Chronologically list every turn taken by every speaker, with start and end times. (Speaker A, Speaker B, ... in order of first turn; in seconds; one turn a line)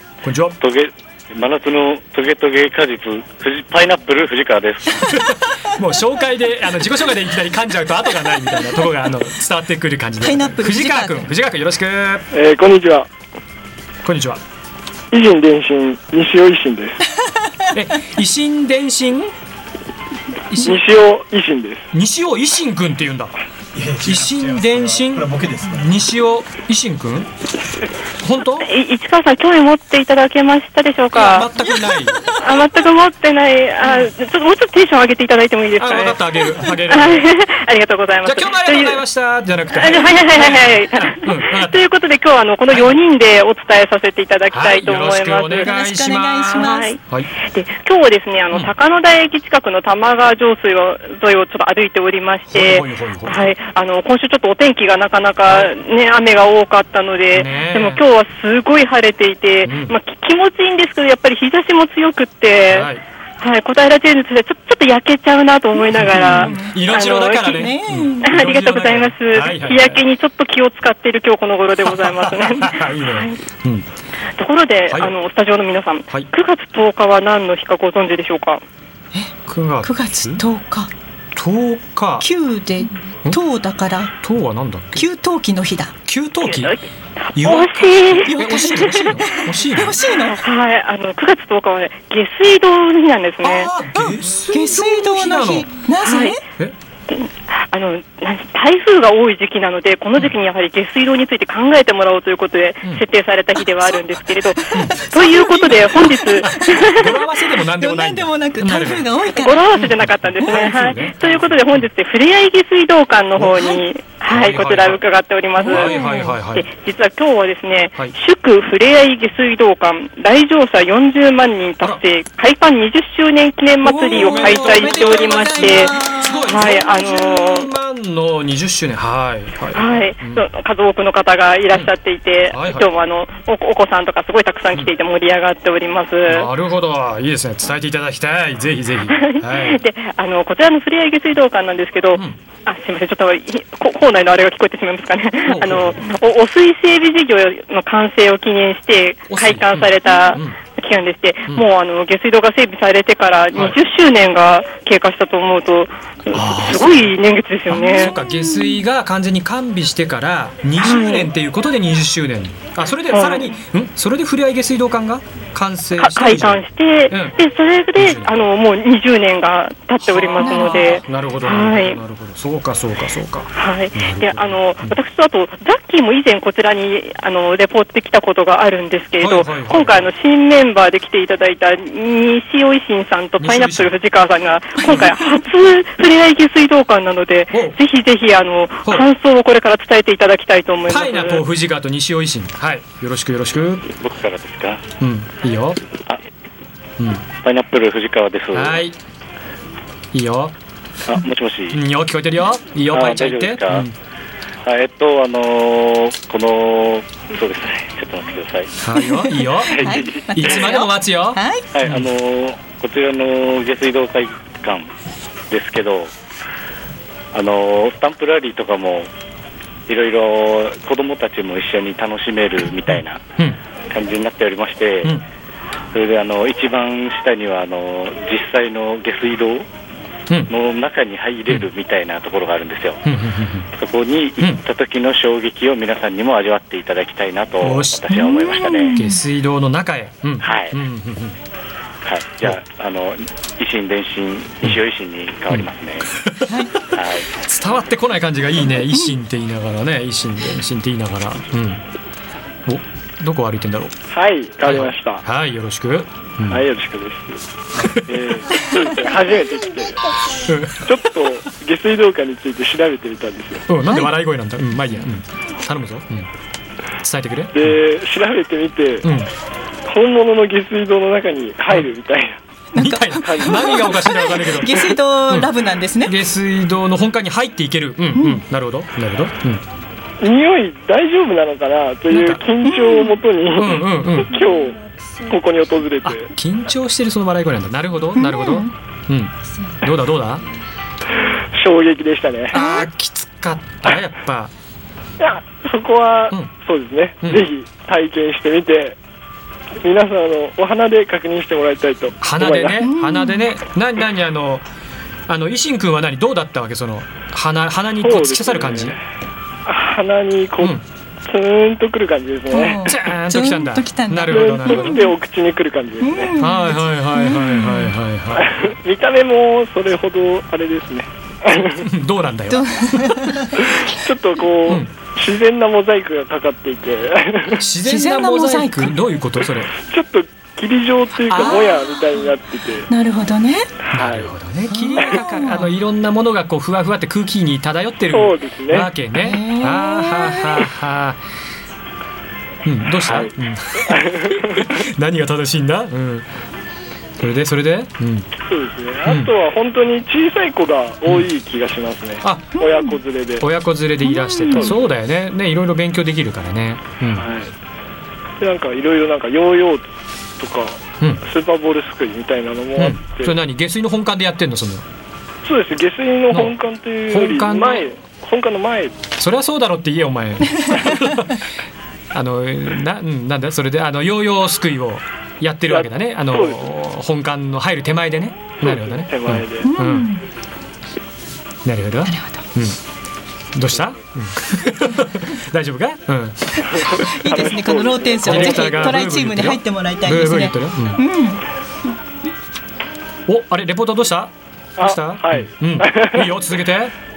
Speaker A: 0.2-0.6
Speaker B: 0.6-5.2
Speaker A: 5.1-12.2
Speaker C: 10.2-11.3
Speaker D: 12.3-13.1
Speaker A: 14.0-14.4
Speaker D: 15.1-17.0
Speaker A: 17.7-19.3
Speaker A: 20.5-20.8
Speaker D: 20.6-21.9
Speaker A: 21.9-27.3
Speaker A: 28.2-28.7
Speaker E: 28.6-31.5
Speaker A: 31.1-32.2
Speaker E: 32.4-39.0
Speaker A: 35.8-37.3
Speaker A: 38.2-41.8
Speaker E: 39.8-45.7
Speaker A: 42.7-43.0
Speaker A: 44.5-47.3
Speaker C: 45.6-46.9
Speaker E: 46.6-62.9
Speaker A: 52.5-53.5
Speaker A: 55.5-55.7
Speaker A: 57.3-58.0
Speaker A: 59.7-60.0
Speaker A: 62.7-63.0
Speaker E: 63.4-67.6
Speaker A: 65.9-70.0
Speaker C: 66.3-66.7
Speaker C: 67.5-68.3
Speaker E: 68.3-73.4
Speaker A: 71.8-73.9
Speaker E: 74.4-78.6
Speaker A: 74.9-75.2
Speaker C: 79.1-80.9
Speaker A: 79.5-80.4
Speaker A: 81.3-82.3
Speaker C: 82.2-84.1
Speaker A: 84.2-85.1
Speaker C: 85.0-85.9
Speaker A: 86.1-86.8
Speaker E: 86.4-88.7
Speaker A: 87.3-90.0
Speaker C: 88.2-90.4
Speaker E: 90.4-93.7
Speaker A: 93.4-95.7
Speaker C: 94.0-96.4
Speaker E: 96.0-96.4
Speaker E: 97.1-107.1
Speaker C: 104.8-106.7
Speaker A: 106.4-109.1
Speaker C: 107.8-109.8
Speaker E: 109.4-125.9
Speaker A: 109.7-111.9
Speaker C: 110.4-110.7
Speaker C: 113.5-113.8
Speaker A: 114.3-115.0
Speaker A: 115.6-116.7
Speaker C: 115.7-116.3
Speaker C: 123.8-126.5
Speaker A: 124.1-130.4
Speaker E: 126.5-127.7
Speaker E: 129.8-136.5
Speaker A: 132.5-132.9
Speaker A: 136.3-139.8
Speaker E: 139.1-158.1
Speaker A: 145.4-146.0
Speaker A: 149.3-150.6
Speaker A: 153.5-153.8
Speaker A: 156.3-157.2
Speaker A: 157.7-167.4
Speaker C: 158.2-158.8
Speaker E: 160.8-161.3
Speaker E: 163.1-163.5
Speaker E: 166.0-172.0
Speaker A: 167.9-168.5
Speaker A: 170.0-175.0
Speaker C: 170.4-171.0
Speaker E: 173.6-191.4
Speaker A: 179.2-180.1
Speaker A: 183.4-184.0
Speaker A: 184.8-185.1
Speaker A: 187.5-187.8
Speaker A: 190.9-193.8
Speaker B: 193.9-194.8
Speaker A: 195.0-195.8
Speaker A: 197.0-197.2
Speaker B: 197.4-198.8
Speaker A: 198.5-199.0
Speaker A: 200.1-200.5
Speaker B: 201.1-201.8
Speaker A: 201.7-203.9
Speaker B: 202.9-203.9
Speaker B: 204.7-208.8
Speaker A: 208.8-212.1
Speaker C: 209.0-211.6
Speaker B: 209.7-210.8
Speaker B: 211.7-214.9
Speaker B: 215.5-216.1
Speaker B: 217.3-219.1
Speaker B: 219.9-223.2
Speaker A: 222.9-223.6
Speaker B: 223.9-225.2
Speaker B: 225.9-229.7
Speaker B: 230.5-233.0
Speaker A: 233.1-233.7
Speaker B: 233.8-239.0
Speaker A: 237.6-238.3
Speaker C: 238.2-239.2
Speaker A: 238.9-241.4
Speaker B: 240.4-240.8
Speaker B: 242.1-246.2
Speaker A: 246.2-246.5
Speaker C: 246.5-246.7
Speaker B: 246.9-247.3
Speaker A: 247.4-251.8
Speaker A: 252.7-253.9
Speaker D: 254.1-255.2
Speaker A: 254.7-256.6
Speaker D: 256.5-257.4
Speaker D: 258.1-260.1
Speaker A: 260.5-260.9
Speaker D: 260.8-263.7
Speaker A: 263.7-266.3
Speaker A: 267.0-267.8
Speaker D: 267.5-269.0
Speaker A: 269.0-269.3
Speaker D: 269.9-272.4
Speaker C: 272.8-276.1
Speaker A: 272.8-275.5
Speaker D: 273.2-273.8
Speaker A: 276.0-279.6
Speaker C: 278.2-278.4
Speaker D: 280.2-286.3
Speaker A: 282.1-282.4
Speaker C: 282.6-283.2
Speaker A: 283.6-284.4
Speaker A: 286.0-290.4
Speaker C: 288.2-288.7
Speaker D: 291.6-292.6
Speaker A: 292.5-294.5
Speaker C: 292.6-292.9
Speaker D: 295.2-299.0
Speaker A: 297.2-297.5
Speaker D: 299.8-302.9
Speaker A: 302.2-304.6
Speaker C: 302.8-303.5
Speaker A: 305.3-309.0
Speaker D: 308.0-309.0
Speaker D: 309.7-312.8
Speaker C: 312.5-315.1
Speaker A: 312.9-315.1
Speaker D: 314.3-316.4
Speaker C: 316.0-317.9
Speaker A: 316.4-318.6
Speaker D: 318.4-321.8
Speaker A: 321.8-323.4
Speaker C: 322.5-323.6
Speaker D: 323.6-327.6
Speaker A: 327.6-329.7
Speaker C: 327.8-328.9
Speaker D: 329.8-332.9
Speaker C: 331.3-332.1
Speaker C: 332.9-333.7
Speaker A: 333.9-341.2
Speaker D: 333.9-334.3
Speaker C: 334.7-335.7
Speaker D: 338.1-338.9
Speaker C: 339.2-340.7
Speaker A: 342.6-346.3
Speaker D: 343.9-344.7
Speaker A: 347.2-348.3
Speaker D: 348.4-353.4
Speaker A: 349.1-349.3
Speaker A: 352.2-352.6
Speaker C: 352.6-353.0
Speaker A: 353.4-357.3
Speaker C: 354.0-354.7
Speaker D: 357.1-357.5
Speaker D: 358.4-359.9
Speaker D: 360.4-363.4
Speaker A: 362.8-364.9
Speaker D: 365.4-369.0
Speaker A: 366.3-366.6
Speaker A: 367.1-367.9
Speaker A: 369.2-371.4
Speaker A: 372.1-380.1
Speaker D: 375.7-376.6
Speaker D: 378.6-379.7
Speaker C: 379.6-380.2
Speaker A: 381.6-382.8
Speaker C: 382.1-382.4
Speaker A: 383.6-386.6
Speaker D: 386.7-389.0
Speaker C: 387.1-391.4
Speaker A: 388.2-391.0
Speaker A: 393.3-396.9
Speaker D: 394.8-396.3